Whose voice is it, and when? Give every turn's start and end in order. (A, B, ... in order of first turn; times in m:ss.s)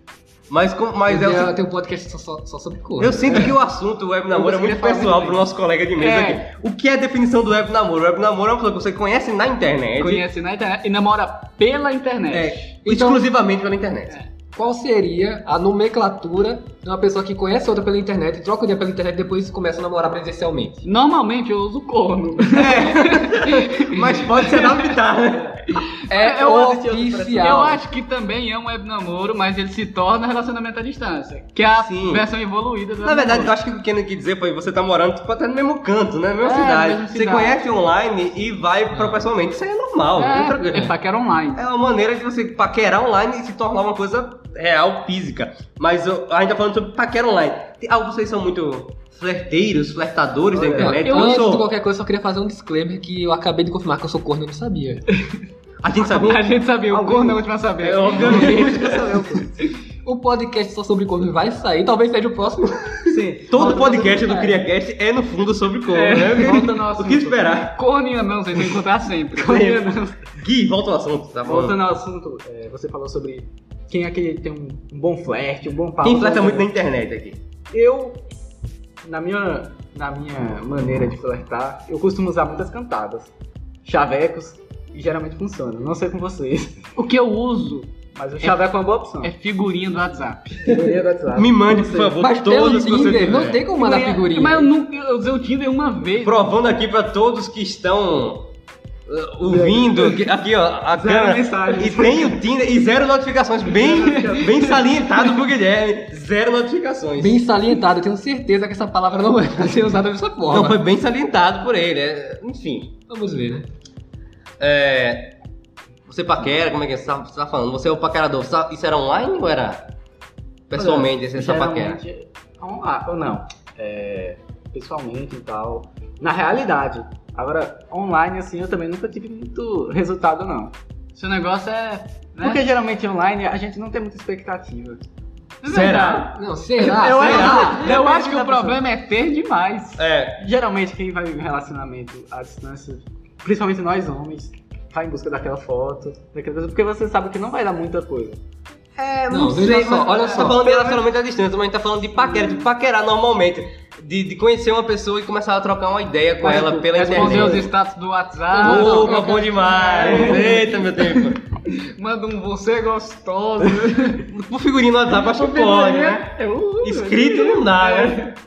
0:00.5-0:01.5 A
0:01.1-0:03.5 B
0:03.0-0:10.2 A
0:04.3-0:05.4 C
0:06.0-0:06.4 D
0:10.0-0:12.8 D
0:12.3-0:14.2 A
0:12.9-0:13.2 B
0:14.5-0:20.8 B
0:20.8-0:24.9 D
0:22.5-0:25.7 A
0:25.8-0:26.4 D
0:26.1-0:27.8 B
0:26.1-0:27.7 C
0:27.4-0:33.5 D
0:31.8-0:32.2 A
0:33.0-0:41.0 A
0:36.4-0:37.6 D
0:40.2-0:41.6 D
0:41.6-0:51.7 A
0:50.5-0:51.0 C
0:50.8-0:55.0 B
0:51.1-0:51.4 D
0:55.8-0:56.5 A
0:56.0-0:59.0 D
0:56.9-0:57.4 C
0:57.8-0:59.3 A
0:58.1-0:59.6 C
1:00.0-1:03.2 B
1:03.1-1:04.5 C
1:03.5-1:07.8 A
1:05.9-1:06.9 D
1:06.4-1:07.5 C
1:07.5-1:10.1 D
1:09.4-1:11.8 A
1:09.4-1:10.0 C
1:11.4-1:16.7 C
1:16.0-1:17.4 A
1:17.7-1:18.2 C
1:19.0-1:23.3 C
1:23.8-1:26.9 C
1:27.0-1:28.6 D
1:28.2-1:29.3 C
1:29.2-1:30.7 D
1:30.6-1:32.2 C
1:31.3-1:33.6 A
1:32.2-1:34.7 B
1:33.8-1:36.5 D
1:36.2-1:38.5 A
1:39.1-1:47.4 A
1:39.4-1:40.2 C
1:40.9-1:42.4 C
1:43.7-1:44.8 C
1:47.2-1:50.8 B
1:50.5-1:52.9 A
1:53.1-1:53.7 B
1:54.6-1:55.3 A
1:56.1-1:59.9 A
2:00.7-2:02.0 A
2:00.8-2:10.7 C
2:11.2-2:12.6 D
2:12.4-2:15.0 C
2:15.6-2:20.0 D
2:15.6-2:16.3 A
2:16.2-2:17.9 B
2:17.1-2:18.6 A
2:17.9-2:18.3 C
2:20.0-2:20.4 A
2:20.4-2:28.4 C
2:29.0-2:37.7 A
2:29.3-2:30.6 B
2:30.3-2:31.0 C
2:36.4-2:37.7 C
2:36.9-2:44.2 D
2:38.5-2:39.5 B
2:38.6-2:41.4 A
2:40.0-2:40.6 C
2:44.3-2:46.3 A
2:45.2-2:48.4 D
2:46.8-2:48.2 A